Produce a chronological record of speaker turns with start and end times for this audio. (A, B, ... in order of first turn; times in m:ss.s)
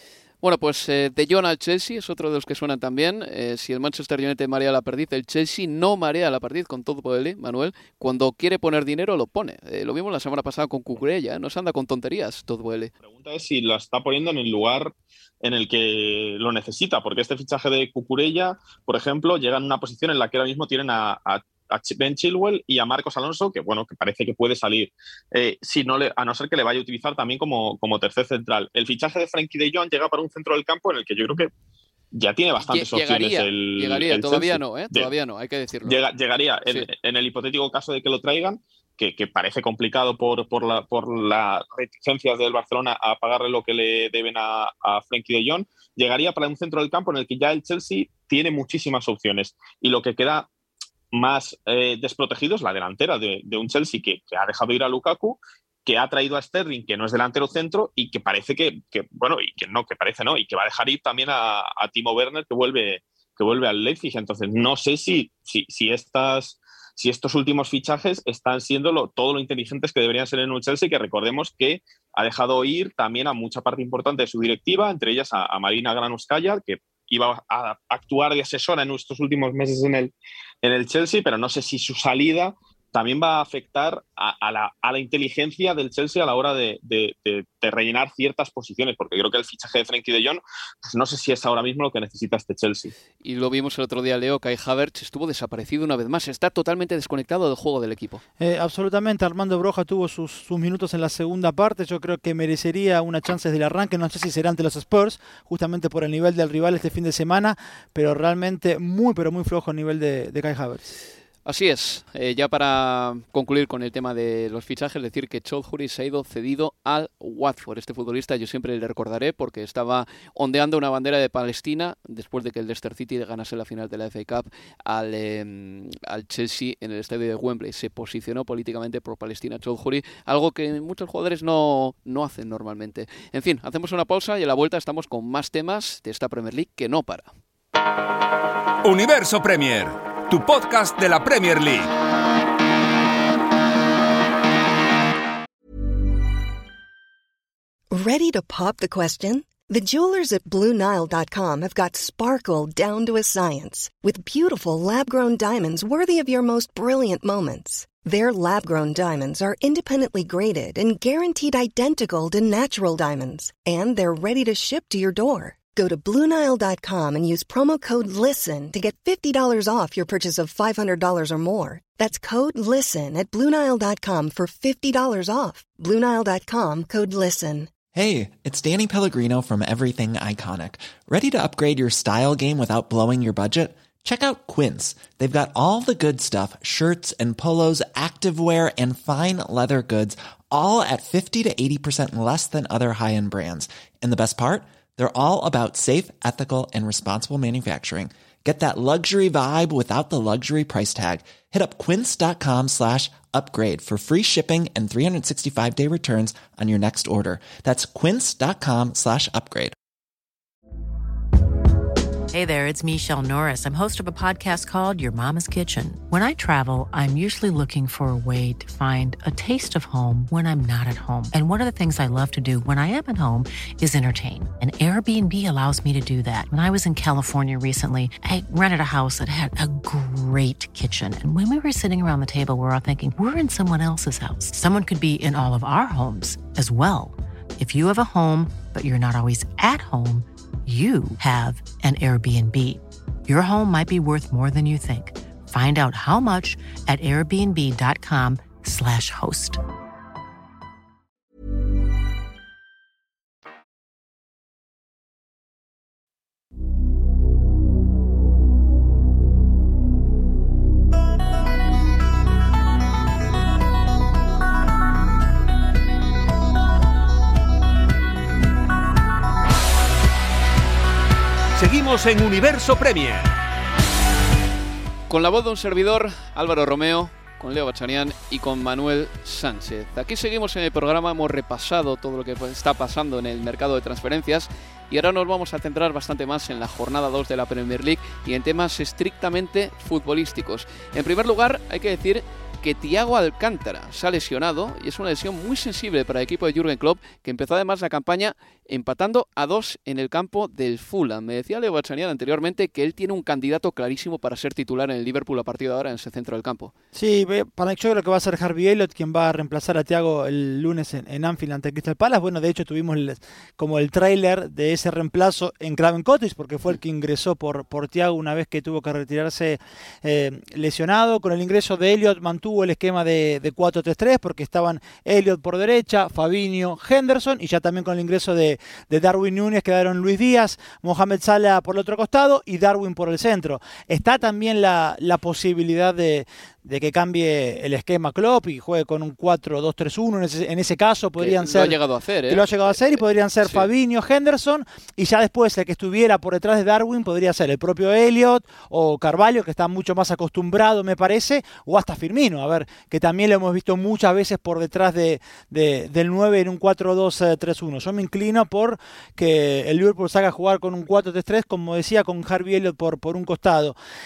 0:00.4-0:12.9 A
0:13.1-0:31.5 B
0:32.1-0:35.1 B
0:32.6-0:36.0 A
0:35.8-0:50.5 B
0:51.1-1:32.9 B
1:33.2-1:38.2 A
1:38.4-1:50.9 C
1:51.4-2:17.3 A
2:18.8-2:21.9 D
2:27.9-2:57.7 E
2:57.9-3:29.8 F
3:32.3-4:09.6 G
4:31.6-4:33.3 D
4:35.1-5:06.7 A
5:06.9-6:03.8 C
5:41.2-5:42.8 A
5:43.4-5:43.7 A